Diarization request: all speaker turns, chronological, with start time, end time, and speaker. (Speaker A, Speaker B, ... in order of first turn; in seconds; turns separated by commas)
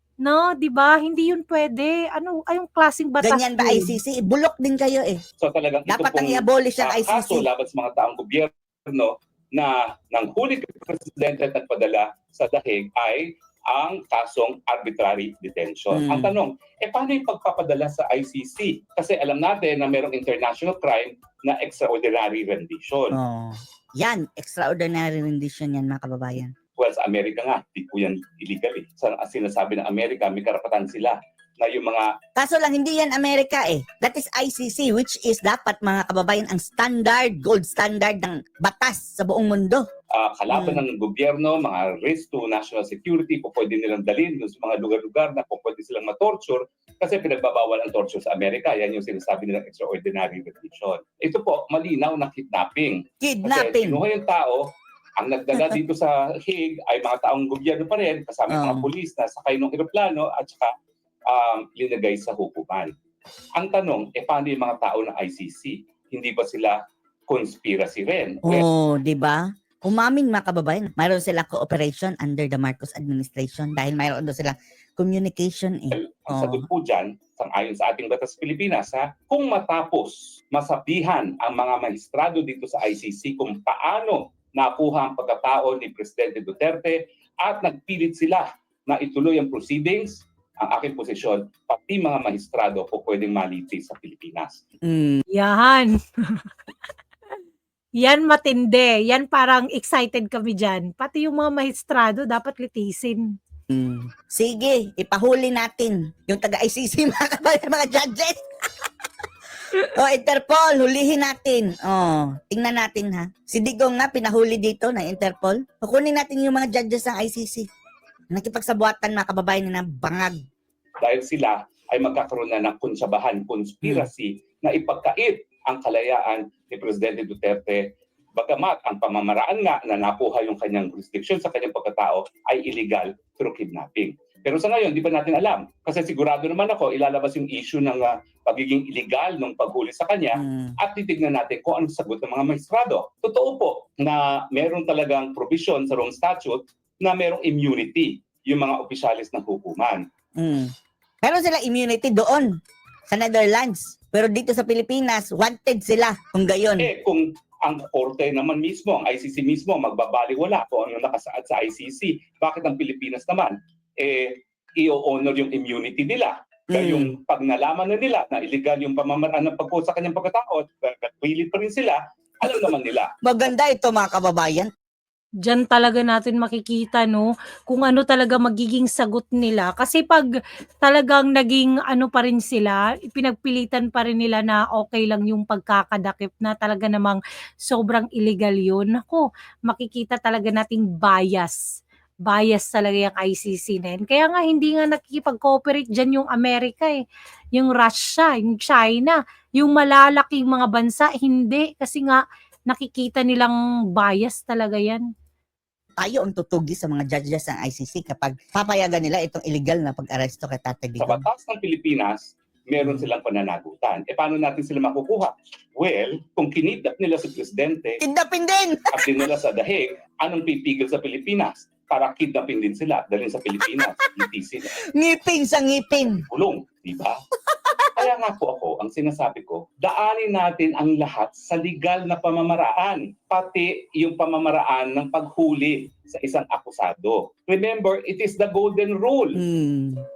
Speaker A: 0.2-4.0, Speaker B: 3.2-5.2, Speaker C: 5.4-23.2, Speaker B: 5.9-7.5, Speaker B: 15.9-16.3, Speaker B: 23.1-26.5, Speaker C: 26.8-32.1, Speaker B: 32.4-39.9, Speaker C: 40.1-54.6, Speaker B: 40.5-40.8, Speaker B: 53.2-54.0, Speaker C: 55.2-60.7, Speaker B: 58.5-58.9, Speaker C: 61.3-62.9, Speaker C: 63.6-66.8, Speaker C: 67.3-68.6, Speaker B: 68.4-76.6, Speaker C: 75.9-94.6, Speaker B: 94.8-95.2, Speaker A: 95.3-96.4, Speaker A: 98.0-103.3, Speaker B: 103.7-108.4, Speaker B: 109.9-117.7, Speaker B: 118.3-120.4, Speaker C: 121.0-127.8, Speaker C: 128.4-150.0, Speaker B: 140.3-140.8, Speaker B: 150.4-150.7, Speaker B: 151.2-152.5, Speaker B: 153.1-156.9, Speaker C: 156.8-173.1, Speaker B: 166.7-167.1, Speaker B: 173.2-174.7, Speaker A: 175.4-180.3, Speaker A: 180.8-191.6, Speaker A: 192.3-197.0, Speaker A: 197.5-205.1, Speaker B: 206.0-211.2, Speaker C: 211.0-218.0, Speaker B: 218.0-219.1, Speaker C: 218.9-224.7, Speaker B: 224.9-226.2, Speaker C: 226.3-227.2, Speaker B: 227.5-228.1, Speaker C: 228.0-239.4, Speaker B: 239.4-240.0